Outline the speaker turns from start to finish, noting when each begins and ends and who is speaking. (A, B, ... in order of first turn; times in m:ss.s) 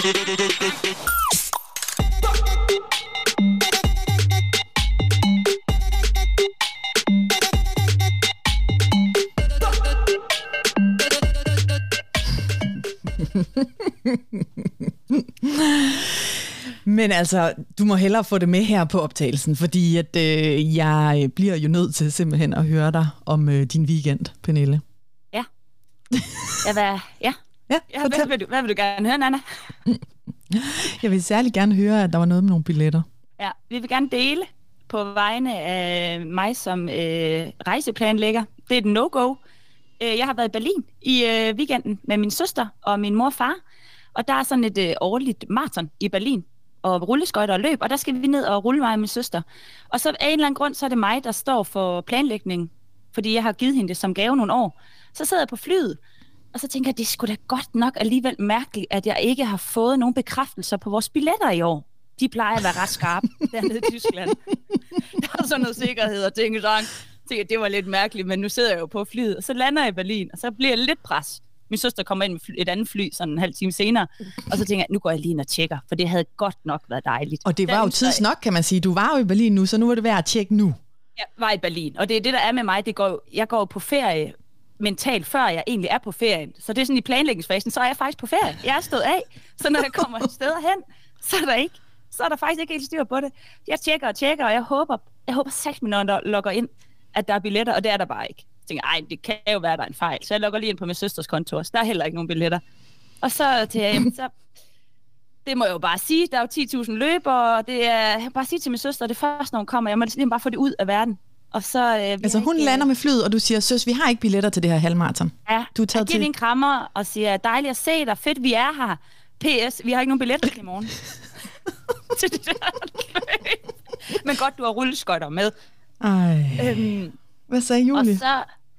0:13.1-0:24.8 A
0:26.1-0:26.6 A
0:26.6-0:27.4 B
0:27.7-0:28.3 A
0:27.9-0:29.4 B
0:29.9-0:33.0 A
0:33.4-0:39.4 B
0:40.0-0:43.6 B
0:44.1-0:56.0 B
0:56.5-1:04.4 B
1:05.0-1:18.2 B
1:17.4-1:20.8 A
1:21.2-1:42.6 B
1:43.2-1:44.3 B
1:45.4-1:52.9 B
1:52.2-1:56.3 A
1:55.5-2:01.0 B
2:02.1-2:05.5 B
2:06.0-2:08.2 A
2:06.6-2:07.1 B
2:07.9-2:08.5 B